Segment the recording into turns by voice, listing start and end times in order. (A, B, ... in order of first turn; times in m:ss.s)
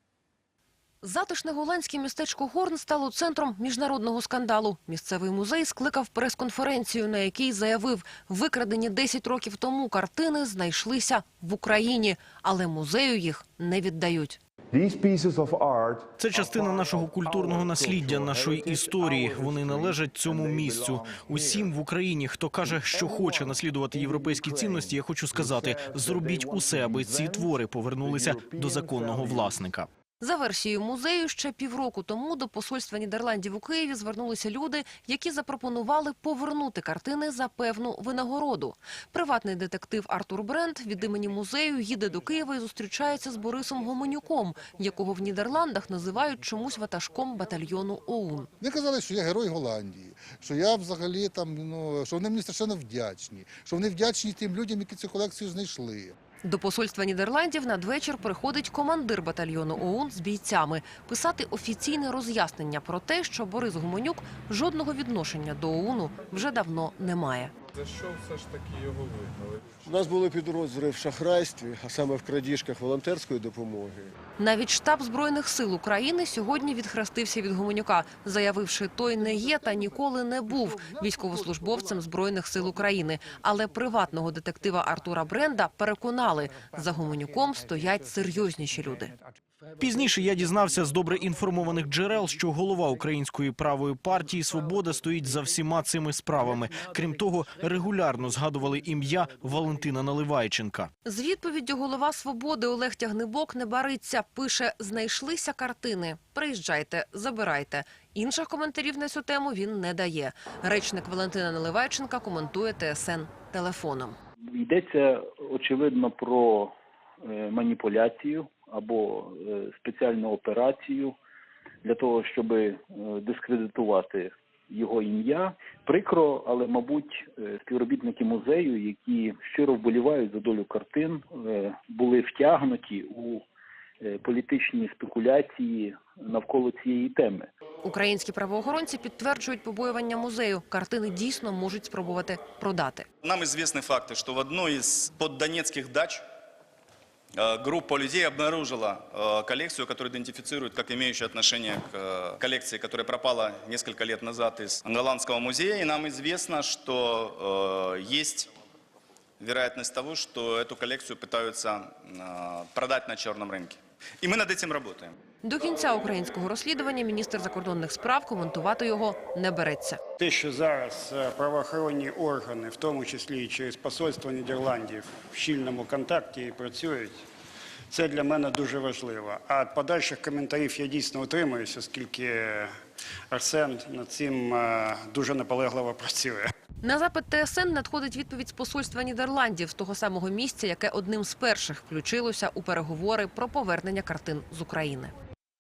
0:01.0-0:14.4 A
0:14.7-0:21.7 B
0:16.2-0:29.9 C
0:22.6-0:27.5 B
0:28.0-0:29.6 B
0:30.2-0:48.5 A
0:48.6-0:56.1 D
0:56.4-1:07.5 A
1:07.8-1:09.7 E
1:09.8-1:14.1 B
1:14.4-1:29.1 A
1:29.8-1:40.9 C
1:41.0-1:54.2 A
1:54.6-1:56.7 F
1:57.2-2:01.2 F
2:01.8-2:13.4 F
2:14.0-2:17.5 F
2:17.8-2:23.0 A
2:23.2-2:26.2 G
2:27.4-2:38.5 G
2:39.4-2:45.1 G
2:45.4-2:50.0 A
2:50.2-2:57.2 H
2:57.9-3:02.7 H
3:03.3-3:06.5 H
3:06.8-3:15.1 A